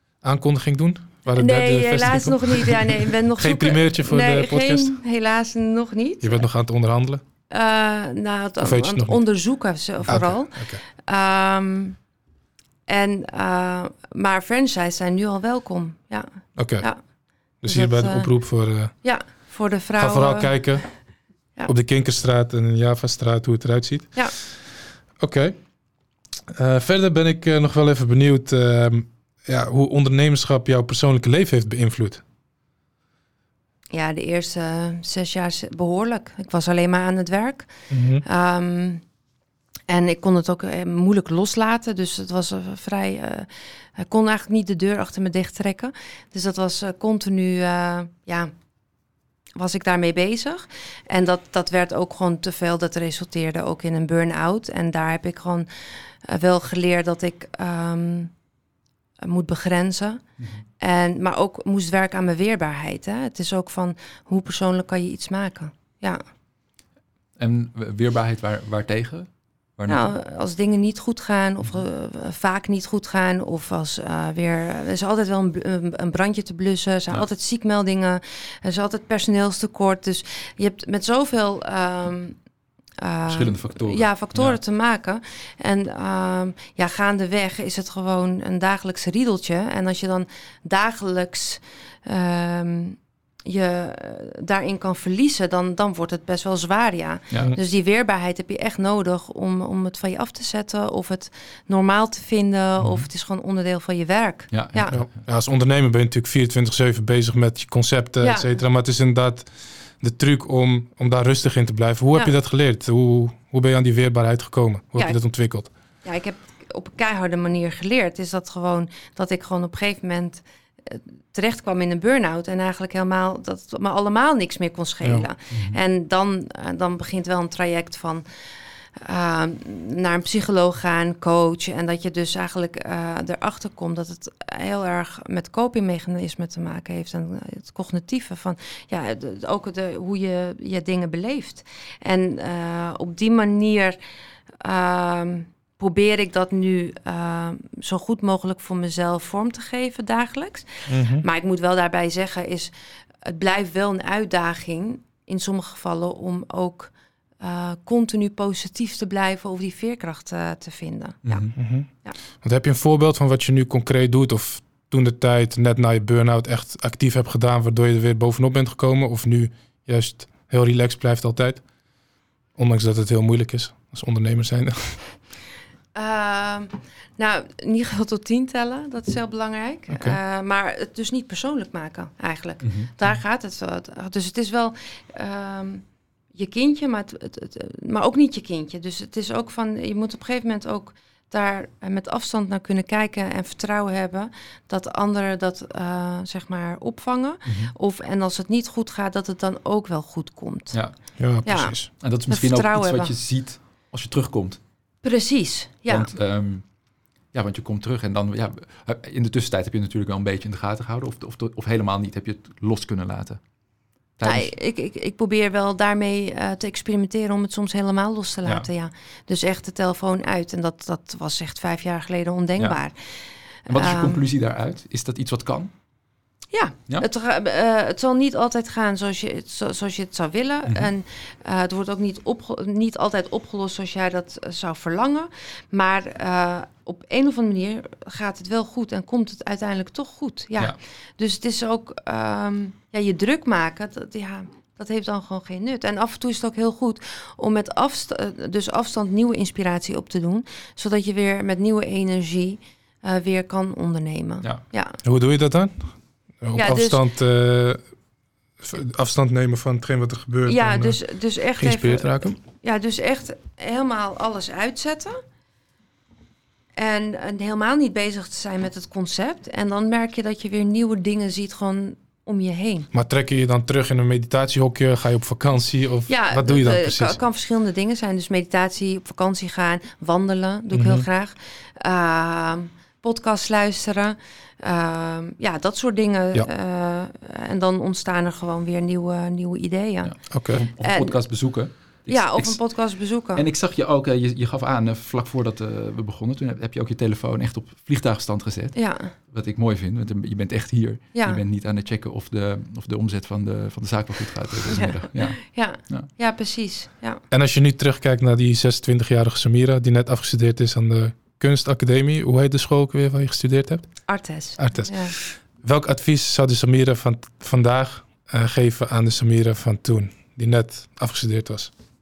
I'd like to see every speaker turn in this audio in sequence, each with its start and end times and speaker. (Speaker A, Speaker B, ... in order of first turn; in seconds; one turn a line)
Speaker A: 0.2-5.0
Speaker B: 1.3-6.5
Speaker A: 6.2-7.2
Speaker B: 7.5-12.0
Speaker A: 8.6-9.2
Speaker A: 10.1-10.8
Speaker B: 12.9-16.3
Speaker A: 16.6-16.9
Speaker A: 17.6-18.9
Speaker B: 17.6-18.3
Speaker B: 19.0-20.9
Speaker A: 20.0-20.9
Speaker A: 21.6-24.6
Speaker A: 25.2-25.5
Speaker A: 26.5-32.2
Speaker B: 33.9-39.0
Speaker A: 37.9-38.2
Speaker B: 39.9-48.5
Speaker B: 49.5-58.3
Speaker B: 59.2-60.2
Speaker B: 60.8-66.2
Speaker C: 67.4-70.1
Speaker B: 69.9-82.3
Speaker B: 83.0-105.0
Speaker C: 83.3-84.6
Speaker C: 104.5-105.1
Speaker A: 104.9-115.7
Speaker B: 108.2-108.5
Speaker B: 116.0-128.2
Speaker A: 125.0-125.3
Speaker C: 125.5-125.8
Speaker B: 128.9-144.0
Speaker B: 144.6-161.5
Speaker A: 150.9-151.2
Speaker C: 161.2-161.5
Speaker A: 161.5-171.7
Speaker A: 172.5-175.0
Speaker B: 175.9-200.8
Speaker A: 179.9-180.2
Speaker C: 182.6-182.9
Speaker C: 197.4-197.7
Speaker A: 201.2-201.9
Speaker B: 201.4-203.1
Speaker C: 202.0-204.6
Speaker B: 205.0-206.1
Speaker C: 205.9-206.6
Speaker C: 207.3-213.4
Speaker C: 214.2-214.5
Speaker B: 214.2-224.2
Speaker C: 223.7-225.7
Speaker B: 226.5-255.0
Speaker A: 255.0-257.8
Speaker B: 256.5-257.0
Speaker A: 258.6-261.0
Speaker B: 260.5-265.2
Speaker A: 261.6-262.4
Speaker B: 266.8-272.9
Speaker A: 272.9-277.2
Speaker B: 276.1-291.4
Speaker A: 280.7-281.1
Speaker C: 290.0-292.6
Speaker A: 290.3-290.6
Speaker B: 292.1-293.4
Speaker C: 293.3-306.1
Speaker B: 298.7-299.1
Speaker B: 301.1-301.4
Speaker B: 304.7-307.2
Speaker A: 307.3-314.0
Speaker B: 314.1-315.1
Speaker A: 314.6-321.7